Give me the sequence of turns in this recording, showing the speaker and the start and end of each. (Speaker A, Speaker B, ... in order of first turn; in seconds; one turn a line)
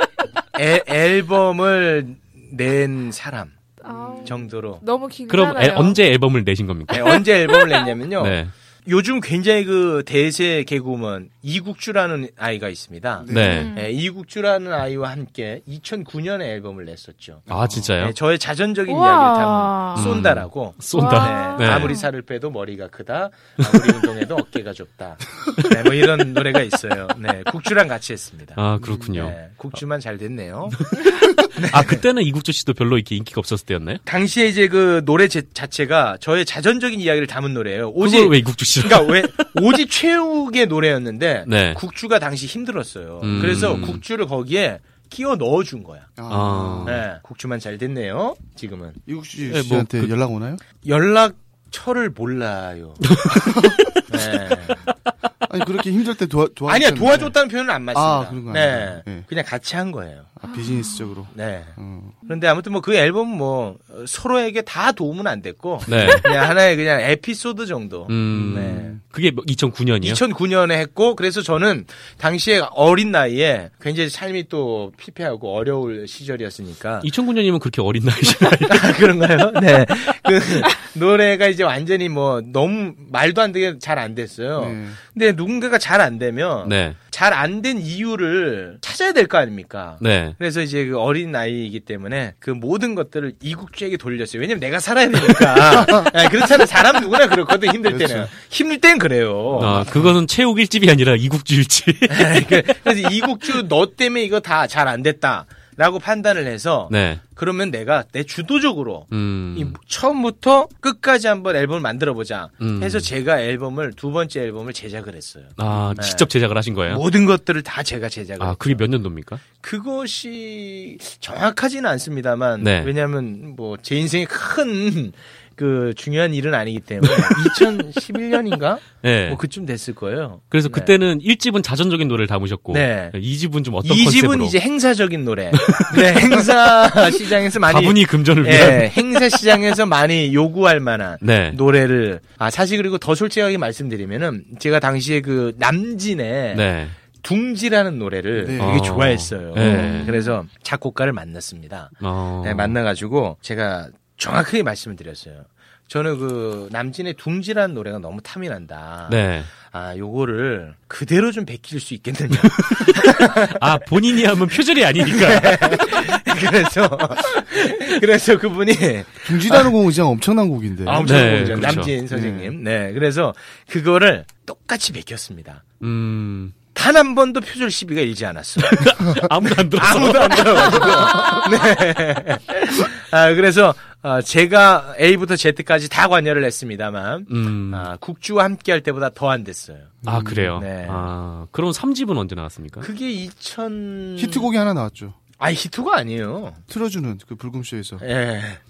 Speaker A: 0.6-3.6
Speaker B: 3.8-6.0
Speaker C: 3.8-4.3
Speaker A: 4.2-4.8
Speaker D: 5.3-7.3
Speaker A: 6.9-28.6
Speaker D: 8.2-8.5
Speaker C: 13.2-13.7
Speaker D: 13.3-13.7
Speaker B: 13.5-13.9
Speaker C: 17.5-18.0
Speaker D: 17.5-18.2
Speaker B: 18.9-20.2
Speaker D: 19.9-22.0
Speaker B: 20.9-22.1
Speaker D: 23.6-23.9
Speaker D: 28.6-29.4
Speaker C: 28.8-29.3
Speaker A: 29.1-30.8
Speaker D: 30.8-34.0
Speaker A: 31.6-32.0
Speaker A: 34.1-46.1
Speaker D: 38.0-39.7
Speaker D: 41.5-41.8
Speaker D: 43.2-44.0
Speaker C: 46.2-47.0
Speaker D: 46.3-47.0
Speaker A: 46.9-49.0
Speaker C: 49.1-50.6
Speaker D: 49.5-50.1
Speaker A: 50.8-53.1
Speaker D: 53.1-53.8
Speaker C: 53.3-53.9
Speaker A: 54.1-54.8
Speaker C: 55.4-57.4
Speaker A: 56.7-60.3
Speaker C: 57.9-59.3
Speaker C: 60.4-62.2
Speaker B: 60.5-61.1
Speaker A: 61.3-61.8
Speaker A: 62.3-69.0
Speaker D: 65.9-66.2
Speaker C: 65.9-66.2
Speaker D: 68.1-70.2
Speaker C: 68.3-69.0
Speaker A: 70.0-77.1
Speaker D: 77.0-78.9
Speaker A: 78.7-99.9
Speaker C: 84.6-85.0
Speaker D: 86.6-87.0
Speaker D: 90.0-90.4
Speaker C: 95.6-96.1
Speaker C: 97.9-98.3
Speaker D: 99.6-102.7
Speaker C: 99.6-100.1
Speaker A: 102.1-116.3
Speaker D: 106.9-107.2
Speaker D: 109.1-109.8
Speaker D: 112.6-113.1
Speaker D: 115.6-117.0
Speaker C: 115.7-116.0
Speaker A: 116.9-118.8
Speaker D: 118.4-119.4
Speaker A: 119.6-130.9
Speaker D: 122.6-122.9
Speaker D: 127.0-127.6
Speaker D: 129.0-129.4
Speaker D: 130.5-134.6
Speaker A: 132.7-133.2
Speaker A: 133.8-146.6
Speaker D: 135.5-136.4
Speaker D: 137.6-139.3
Speaker D: 141.2-141.6
Speaker D: 146.5-147.0
Speaker A: 147.2-163.6
Speaker C: 148.4-148.8
Speaker D: 148.6-150.1
Speaker B: 149.6-150.3
Speaker D: 152.0-152.8
Speaker D: 159.1-159.5
Speaker D: 162.4-166.1
Speaker A: 165.1-169.7
Speaker C: 169.2-172.5
Speaker A: 170.8-175.6
Speaker D: 171.0-171.9
Speaker D: 175.8-176.6
Speaker A: 176.7-179.0
Speaker D: 178.7-181.4
Speaker A: 179.7-189.9
Speaker D: 187.3-187.9
Speaker C: 190.0-190.6
Speaker D: 190.1-192.9
Speaker A: 190.6-191.1
Speaker A: 192.8-194.5
Speaker C: 194.2-195.2
Speaker A: 195.4-196.6
Speaker C: 196.7-198.0
Speaker A: 198.0-198.6